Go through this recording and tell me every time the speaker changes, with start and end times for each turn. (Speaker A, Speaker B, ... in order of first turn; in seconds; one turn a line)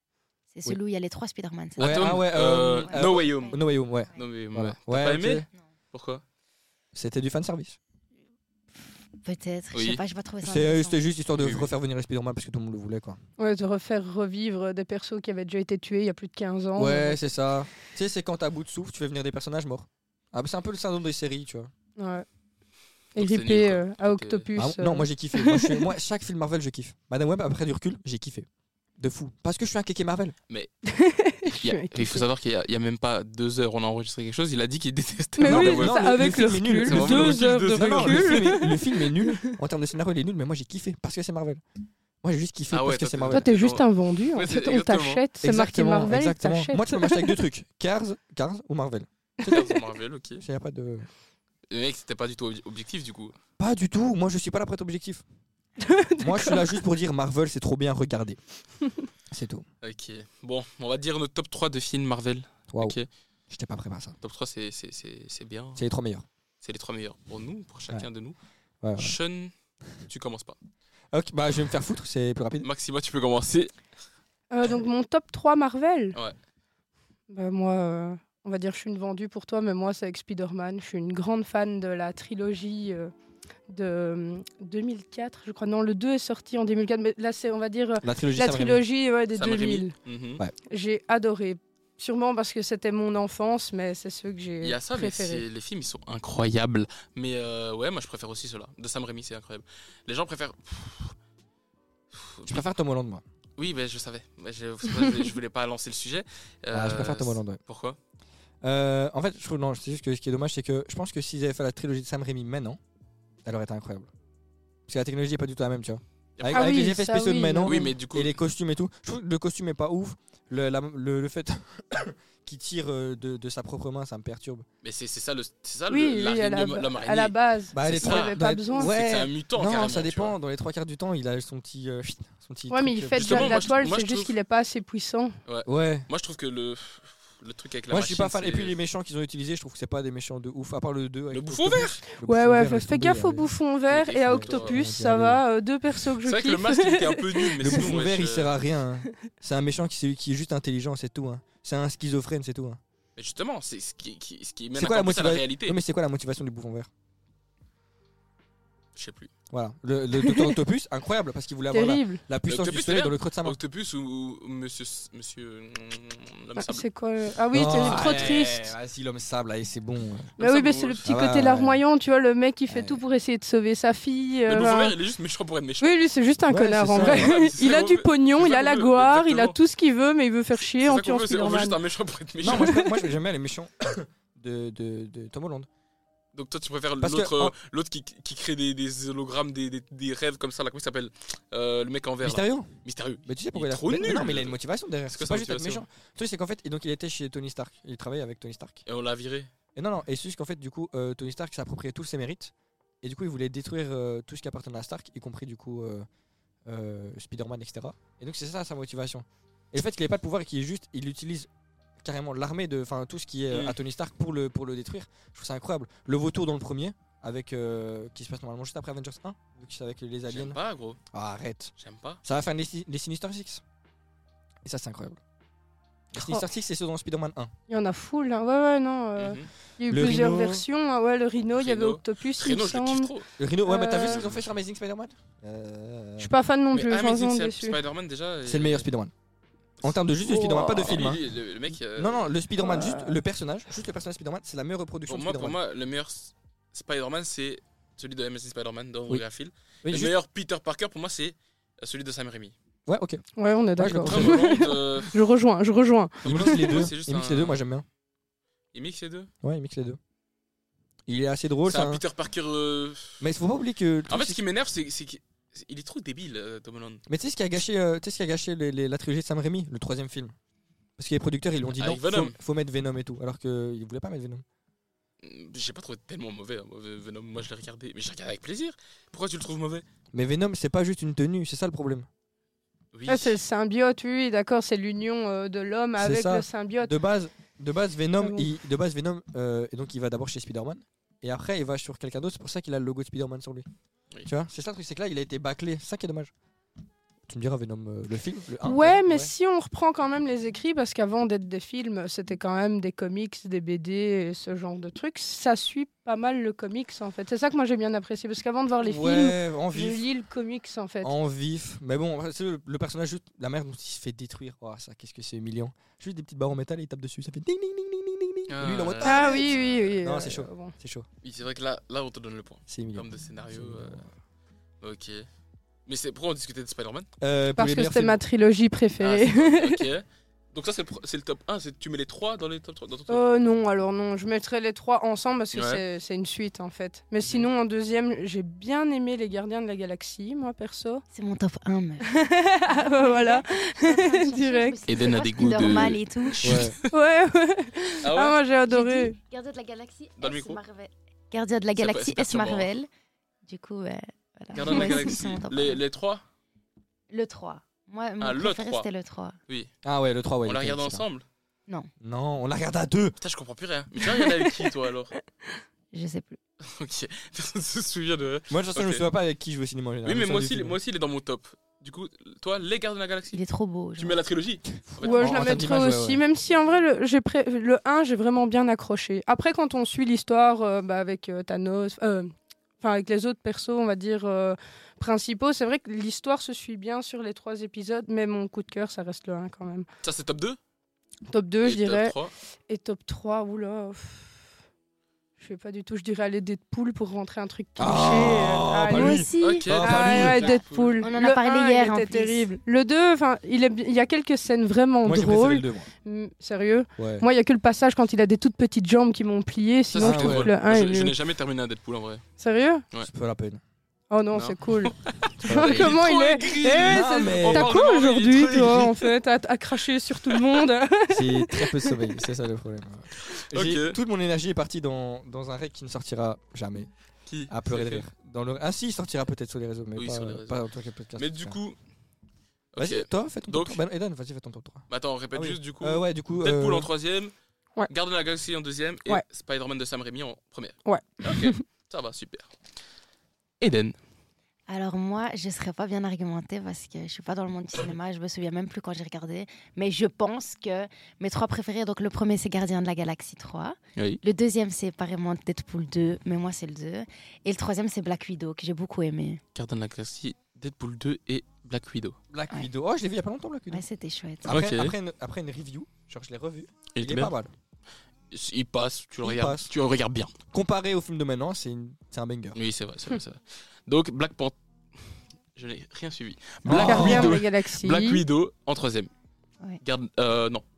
Speaker A: 0.5-2.2
Speaker B: 1.8-5.5
Speaker C: 1.8-3.6
Speaker A: 2.8-4.2
Speaker C: 4.2-6.2
Speaker B: 6.9-7.8
Speaker A: 9.2-11.0
Speaker C: 9.7-10.0
Speaker B: 10.4-13.2
Speaker C: 11.3-11.7
Speaker D: 13.4-17.2
Speaker B: 16.8-21.7
Speaker D: 22.0-22.3
Speaker C: 23.2-24.5
Speaker D: 23.2-25.8
Speaker B: 24.6-28.5
Speaker B: 29.0-30.4
Speaker D: 30.9-32.2
Speaker C: 31.5-36.1
Speaker D: 35.4-39.6
Speaker B: 35.4-41.6
Speaker C: 36.9-38.6
Speaker B: 42.2-43.5
Speaker C: 42.7-45.2
Speaker D: 43.3-47.3
Speaker B: 45.4-49.1
Speaker C: 49.4-50.4
Speaker B: 50.4-51.1
Speaker C: 51.7-53.4
Speaker B: 53.6-55.2
Speaker D: 55.8-56.8
Speaker B: 56.2-58.4
Speaker B: 59.3-59.7
Speaker C: 59.8-63.1
Speaker B: 62.7-63.0
Speaker B: 63.5-64.2
Speaker C: 64.2-65.8
Speaker B: 65.8-66.3
Speaker C: 66.6-68.4
Speaker B: 68.8-69.2
Speaker C: 69.0-69.5
Speaker C: 70.1-70.6
Speaker B: 71.1-72.7
Speaker C: 72.6-73.7
Speaker D: 74.5-76.2
Speaker D: 77.3-83.1
Speaker D: 83.7-89.9
Speaker B: 88.0-88.8
Speaker C: 89.3-90.4
Speaker D: 90.7-95.4
Speaker C: 94.6-101.2
Speaker C: 102.1-102.6
Speaker B: 102.5-103.2
Speaker C: 103.6-108.0
Speaker B: 106.7-107.6
Speaker B: 108.6-112.8
Speaker B: 113.5-114.1
Speaker B: 114.9-124.7
Speaker C: 116.4-116.9
Speaker D: 116.5-117.9
Speaker C: 117.7-118.3
Speaker C: 124.8-130.3
Speaker D: 125.9-128.9
Speaker B: 127.7-133.8
Speaker D: 132.7-135.3
Speaker C: 133.2-134.3
Speaker C: 135.5-138.8
Speaker B: 135.7-136.1
Speaker B: 137.9-143.5
Speaker C: 141.3-142.0
Speaker D: 142.2-147.9
Speaker C: 143.9-144.8
Speaker B: 144.3-145.4
Speaker C: 146.1-148.6
Speaker B: 147.6-152.8
Speaker C: 153.2-155.8
Speaker B: 154.8-156.9
Speaker C: 159.0-159.3
Speaker B: 159.5-163.6
Speaker D: 160.2-160.6
Speaker D: 161.7-162.2
Speaker C: 162.5-166.9
Speaker D: 166.6-168.7
Speaker B: 167.5-170.3
Speaker C: 170.4-171.1
Speaker D: 170.4-174.9
Speaker B: 171.0-171.8
Speaker B: 172.7-173.0
Speaker C: 174.5-176.0
Speaker D: 175.8-181.8
Speaker B: 176.5-177.3
Speaker C: 177.0-179.6
Speaker C: 180.8-182.8
Speaker B: 182.4-185.7
Speaker D: 182.4-183.1
Speaker C: 186.3-194.6
Speaker B: 187.0-187.6
Speaker B: 192.2-192.7
Speaker B: 193.2-198.8
Speaker C: 195.1-195.8
Speaker C: 198.9-199.5
Speaker B: 199.8-206.1
Speaker B: 206.7-211.5
Speaker B: 212.0-220.6
Speaker C: 213.5-213.8
Speaker C: 220.3-221.0
Speaker B: 221.1-221.7
Speaker C: 221.8-222.2
Speaker B: 222.2-223.6
Speaker B: 224.6-225.2
Speaker B: 226.1-227.5
Speaker D: 226.2-226.4
Speaker D: 227.7-233.1
Speaker C: 229.2-229.5
Speaker B: 229.9-230.6
Speaker C: 231.6-233.3
Speaker B: 233.4-236.3
Speaker D: 233.7-234.2
Speaker C: 234.0-234.5
Speaker D: 236.2-237.8
Speaker C: 236.7-238.9
Speaker B: 238.4-239.1
Speaker B: 239.8-241.2
Speaker D: 240.2-241.0
Speaker C: 240.8-242.3
Speaker B: 242.0-245.6
Speaker D: 242.6-243.2
Speaker C: 245.1-252.6
Speaker B: 249.8-250.2
Speaker B: 252.9-253.2
Speaker D: 253.4-256.9
Speaker B: 253.8-254.5
Speaker C: 253.8-255.2
Speaker C: 256.2-257.6
Speaker B: 256.2-257.9
Speaker C: 258.7-259.3
Speaker B: 259.4-260.0
Speaker B: 261.1-262.0
Speaker C: 261.6-263.2
Speaker B: 263.2-264.4
Speaker C: 264.1-267.0
Speaker B: 267.1-270.4
Speaker B: 271.0-274.4
Speaker C: 271.8-272.4
Speaker C: 275.2-279.9
Speaker B: 280.1-282.1
Speaker C: 282.9-283.4
Speaker D: 283.1-286.9
Speaker B: 286.0-293.7
Speaker D: 288.2-288.5
Speaker B: 294.2-296.3
Speaker B: 297.3-299.3
Speaker D: 298.6-311.1
Speaker B: 308.8-310.1
Speaker B: 311.0-321.1
Speaker C: 318.5-319.8
Speaker D: 319.0-320.7
Speaker C: 321.2-324.0
Speaker B: 322.7-324.0
Speaker C: 324.8-325.3
Speaker C: 325.9-327.1
Speaker B: 327.2-328.2
Speaker D: 327.6-329.8
Speaker C: 329.0-333.2
Speaker D: 333.1-341.0
Speaker C: 335.5-335.8
Speaker C: 337.2-337.5
Speaker A: 341.1-346.6
Speaker D: 342.1-344.8
Speaker C: 344.9-346.9
Speaker B: 346.4-346.8
Speaker D: 346.9-349.1
Speaker C: 348.0-348.4
Speaker A: 348.7-352.9
Speaker C: 350.2-350.6
Speaker C: 351.8-352.7
Speaker A: 353.5-355.8
Speaker C: 354.5-356.2
Speaker A: 357.1-359.4
Speaker C: 358.2-358.9
Speaker B: 359.8-361.1
Speaker C: 360.4-361.2
Speaker B: 362.0-363.1
Speaker C: 363.2-365.1
Speaker D: 364.0-364.7
Speaker A: 365.9-366.4
Speaker C: 366.6-369.1
Speaker B: 368.5-370.8
Speaker C: 370.0-373.4
Speaker A: 373.3-374.2
Speaker C: 374.0-375.7
Speaker D: 375.0-389.9
Speaker B: 375.1-376.2
Speaker C: 390.0-390.6
Speaker D: 391.3-392.2
Speaker C: 391.6-392.3
Speaker D: 392.7-394.3
Speaker D: 395.4-399.3
Speaker B: 397.8-400.4
Speaker A: 398.9-402.5
Speaker C: 399.4-401.0
Speaker D: 399.8-411.1
Speaker B: 405.0-405.9
Speaker B: 407.0-407.3
Speaker C: 409.9-412.2
Speaker B: 410.0-410.5
Speaker D: 412.4-412.8
Speaker B: 413.0-413.6
Speaker D: 414.1-422.0
Speaker C: 414.3-419.1
Speaker B: 415.4-416.0
Speaker B: 416.8-417.7
Speaker C: 420.3-420.6
Speaker B: 421.1-426.9
Speaker C: 423.2-424.0
Speaker C: 427.3-428.1
Speaker B: 427.5-431.6
Speaker C: 430.0-430.6
Speaker C: 431.2-431.8
Speaker C: 432.7-433.8
Speaker B: 432.8-436.9
Speaker C: 434.9-437.3
Speaker C: 437.9-442.5
Speaker D: 440.9-441.6
Speaker C: 443.6-444.0
Speaker A: 444.7-459.4
Speaker C: 454.0-454.2
Speaker C: 459.6-462.2
Speaker B: 462.3-463.8
Speaker A: 463.7-464.5
Speaker B: 464.4-467.5
Speaker C: 464.4-464.9
Speaker C: 466.9-467.3
Speaker C: 468.3-470.3
Speaker B: 469.2-469.7
Speaker B: 470.5-472.6
Speaker C: 472.6-479.1
Speaker B: 476.6-477.4
Speaker D: 476.7-478.2
Speaker C: 479.8-480.6